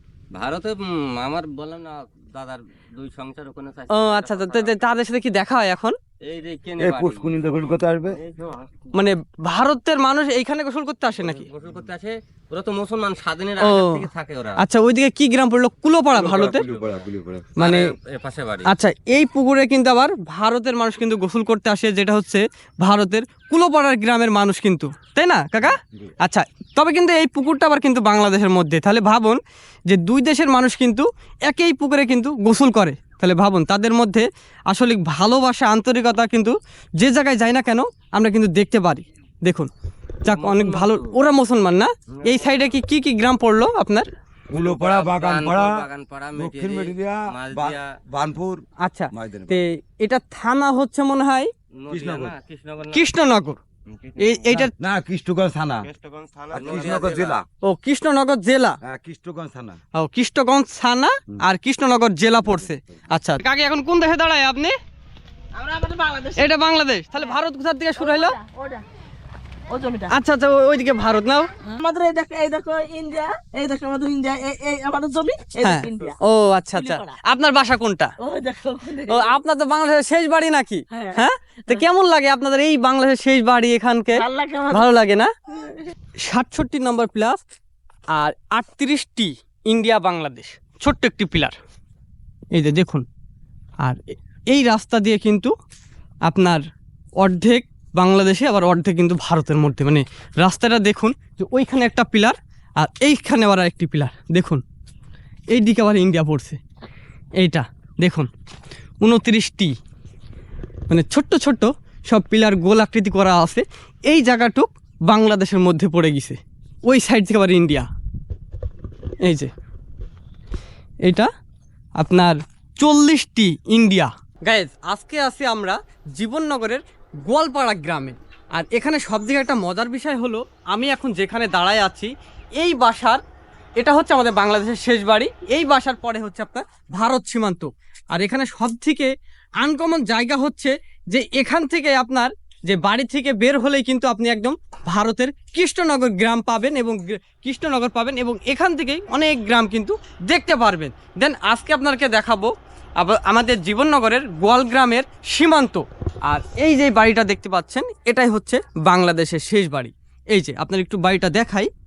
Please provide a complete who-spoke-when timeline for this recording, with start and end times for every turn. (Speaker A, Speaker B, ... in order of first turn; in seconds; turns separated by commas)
Speaker A: 0.3-4.8, Speaker B: 3.9-6.0, Speaker A: 6.3-7.3, Speaker C: 6.8-8.2, Speaker A: 8.1-8.7, Speaker B: 8.9-11.5, Speaker A: 11.2-14.6, Speaker B: 13.6-14.0, Speaker B: 14.6-16.7, Speaker C: 16.2-17.5, Speaker A: 16.4-16.8, Speaker B: 17.6-17.9, Speaker A: 17.6-18.7, Speaker B: 18.7-39.7, Speaker B: 40.2-44.1, Speaker A: 40.3-41.0, Speaker C: 44.5-49.6, Speaker A: 44.5-47.9, Speaker B: 48.8-51.5, Speaker A: 51.8-53.0, Speaker C: 51.9-52.4, Speaker B: 52.9-53.6, Speaker A: 53.9-54.6, Speaker B: 54.2-54.7, Speaker C: 54.8-55.9, Speaker A: 55.9-57.4, Speaker C: 56.5-57.5, Speaker B: 57.6-58.8, Speaker C: 58.8-59.8, Speaker B: 60.0-64.7, Speaker D: 65.5-66.5, Speaker B: 66.4-68.4, Speaker D: 68.0-68.8, Speaker D: 69.7-70.2, Speaker B: 70.1-71.5, Speaker D: 71.6-76.2, Speaker B: 75.6-78.1, Speaker D: 76.7-77.2, Speaker D: 78.2-79.3, Speaker B: 79.1-85.3, Speaker D: 80.9-81.8, Speaker D: 84.2-84.9, Speaker D: 85.5-85.9, Speaker B: 86.2-87.4, Speaker B: 88.1-91.6, Speaker B: 92.5-93.0, Speaker B: 93.8-95.5, Speaker B: 96.2-96.6, Speaker B: 97.2-104.6, Speaker B: 105.5-106.6, Speaker B: 107.4-108.3, Speaker B: 109.0-109.8, Speaker B: 110.9-117.9, Speaker B: 119.2-119.5, Speaker B: 121.0-121.3, Speaker B: 122.0-133.2, Speaker B: 133.8-161.7